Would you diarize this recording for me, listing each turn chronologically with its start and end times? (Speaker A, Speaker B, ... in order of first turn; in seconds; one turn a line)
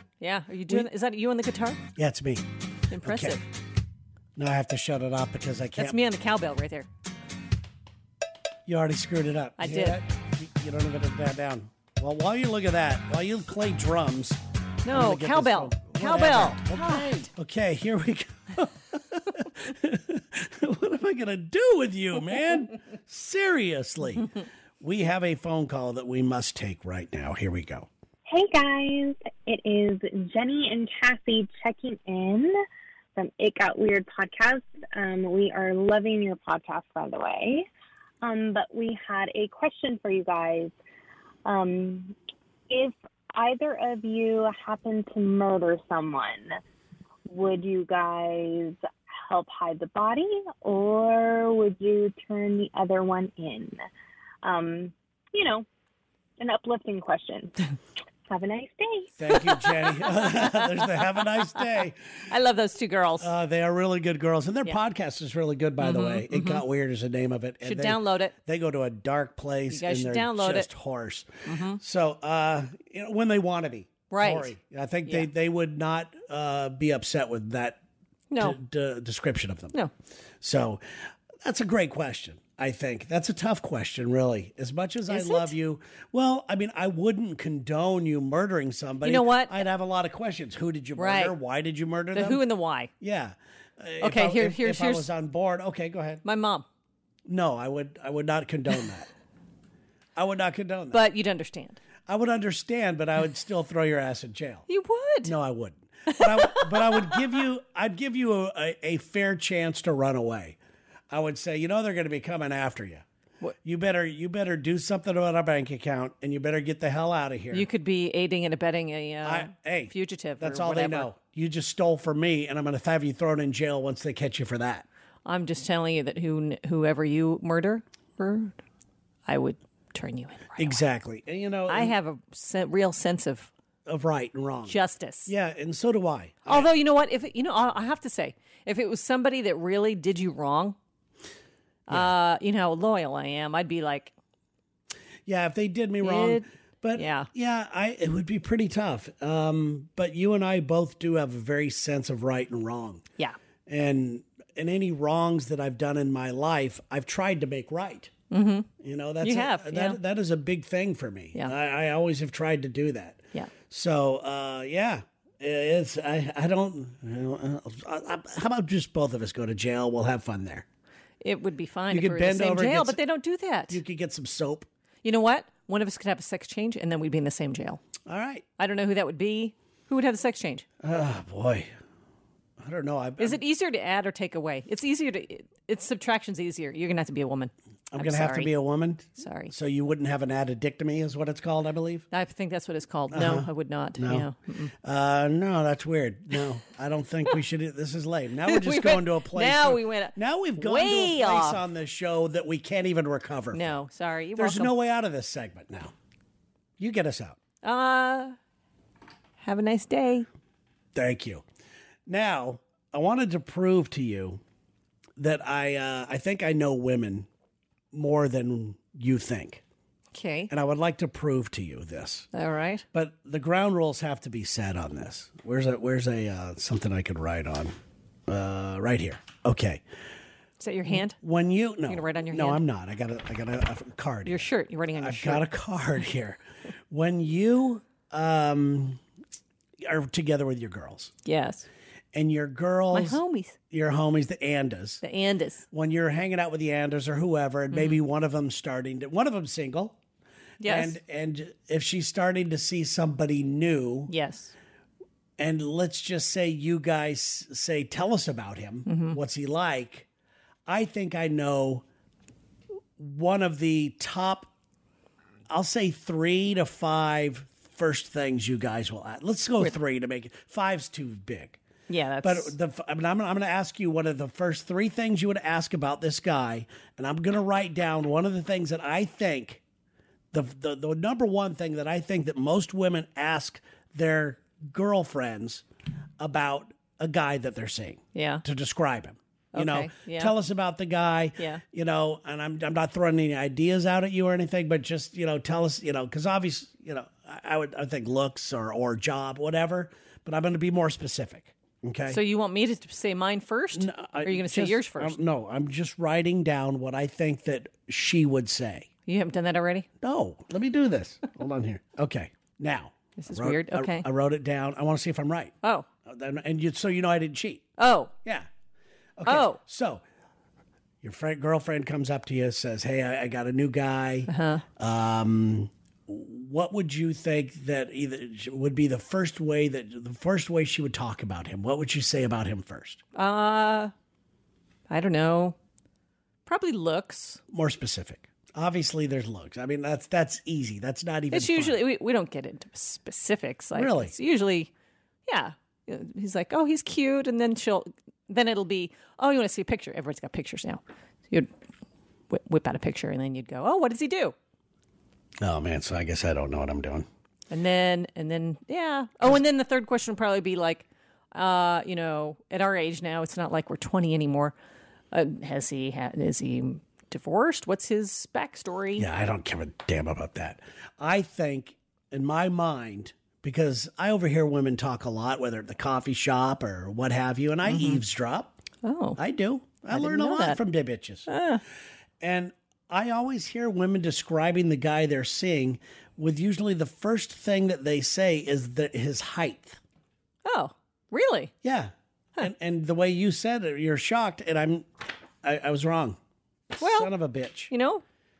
Speaker A: 0.2-1.8
Speaker B: 1.9-2.5
Speaker A: 2.9-3.5
Speaker B: 3.0-3.4
Speaker B: 4.3-6.0
Speaker A: 5.8-6.9
Speaker B: 8.7-27.9
Speaker A: 9.6-10.0
Speaker A: 14.8-17.3
Speaker C: 28.2-32.5
Speaker C: 33.1-37.7
Speaker C: 38.2-40.7
Speaker C: 41.5-42.1
Speaker C: 42.7-46.6
Speaker C: 47.3-53.8
Speaker C: 54.4-55.6
Speaker C: 56.4-57.7
Speaker C: 58.3-59.6
Speaker B: 59.1-62.2
Speaker A: 60.4-60.9
Speaker A: 62.3-63.3
Speaker B: 63.2-77.8
Speaker A: 65.8-66.6
Speaker A: 67.6-68.3
Speaker A: 69.7-70.7
Speaker A: 71.5-71.8
Speaker A: 74.1-74.5
Speaker A: 78.3-78.6
Speaker B: 78.4-79.7
Speaker B: 80.4-80.8
Speaker B: 81.4-92.4
Speaker A: 85.1-85.5
Speaker A: 89.0-89.6
Speaker A: 91.0-91.3
Speaker A: 92.1-92.9
Speaker B: 93.0-96.2
Speaker A: 94.0-95.1
Speaker A: 96.2-96.7
Speaker B: 97.2-99.1
Speaker B: 100.2-101.0
Speaker A: 100.9-101.8
Speaker B: 102.0-104.7
Speaker A: 104.7-105.3
Speaker B: 105.2-110.6
Speaker A: 106.1-107.4
Speaker B: 111.1-113.0
Speaker B: 113.6-117.7
Speaker A: 117.5-121.1
Speaker B: 119.2-124.8
Speaker A: 125.2-128.6
Speaker A: 129.2-130.8
Speaker B: 130.6-131.9
Speaker A: 131.7-133.5
Speaker B: 133.8-136.7
Speaker A: 134.7-135.3
Speaker A: 136.5-140.8
Speaker A: 141.9-144.1
Speaker B: 145.2-153.1
Speaker A: 146.0-147.3
Speaker B: 153.7-158.1
Speaker A: 158.3-158.7
Speaker B: 158.8-170.7
Speaker A: 159.2-160.0
Speaker A: 171.2-173.8
Speaker B: 171.9-173.0
Speaker B: 173.7-174.7
Speaker A: 175.0-177.8
Speaker B: 178.1-178.4
Speaker A: 178.6-180.7
Speaker B: 180.8-181.7
Speaker B: 182.6-183.4
Speaker A: 183.2-188.5
Speaker B: 187.9-192.1
Speaker A: 189.2-189.5
Speaker A: 192.1-194.7
Speaker B: 193.1-194.3
Speaker B: 194.8-203.8
Speaker A: 198.4-201.6
Speaker A: 203.5-204.7
Speaker B: 204.3-205.9
Speaker B: 206.8-207.4
Speaker A: 207.6-208.3
Speaker A: 209.4-210.3
Speaker B: 210.9-211.4
Speaker B: 212.1-214.4
Speaker B: 215.2-217.3
Speaker B: 217.9-219.6
Speaker A: 220.1-220.5
Speaker B: 220.5-222.3
Speaker A: 222.3-222.8
Speaker B: 222.9-227.7
Speaker B: 228.3-229.8
Speaker A: 230.6-231.2
Speaker B: 231.1-239.0
Speaker A: 231.9-232.6
Speaker A: 234.2-235.4
Speaker B: 239.8-241.1
Speaker A: 241.2-241.7
Speaker B: 242.1-245.0
Speaker A: 242.9-243.6
Speaker A: 245.0-245.6
Speaker B: 245.7-250.0
Speaker A: 247.7-248.0
Speaker A: 250.6-251.0
Speaker B: 250.6-254.1
Speaker A: 254.1-254.5
Speaker B: 255.4-260.1
Speaker A: 258.9-259.2
Speaker B: 260.7-261.8
Speaker B: 263.0-264.5
Speaker B: 265.5-271.6
Speaker A: 271.9-272.5
Speaker B: 272.2-279.6
Speaker B: 280.3-285.6
Speaker B: 286.2-302.2
Speaker A: 288.1-288.4
Speaker A: 289.5-290.3
Speaker A: 302.1-305.2
Speaker B: 303.8-308.9
Speaker A: 309.1-309.9
Speaker B: 310.0-317.7
Speaker A: 313.2-314.1
Speaker A: 315.6-315.9
Speaker A: 317.8-318.1
Speaker B: 319.2-320.0
Speaker A: 319.2-319.6
Speaker B: 321.0-333.0
Speaker A: 324.3-324.6
Speaker A: 333.1-333.9
Speaker A: 334.9-335.6
Speaker A: 336.4-337.4
Speaker B: 337.5-341.8
Speaker A: 341.3-344.7
Speaker B: 343.7-344.1
Speaker A: 345.2-351.5
Speaker A: 352.3-354.3
Speaker B: 355.4-357.1
Speaker A: 357.5-364.5
Speaker A: 365.1-369.1
Speaker B: 369.0-378.5
Speaker A: 377.6-378.0
Speaker A: 378.8-379.2
Speaker B: 379.2-381.3
Speaker A: 379.9-380.6
Speaker A: 381.3-381.6
Speaker B: 382.2-389.8
Speaker A: 390.4-391.5
Speaker B: 391.6-394.9
Speaker B: 395.4-396.2
Speaker B: 396.7-397.7
Speaker A: 396.8-397.1
Speaker A: 397.7-398.0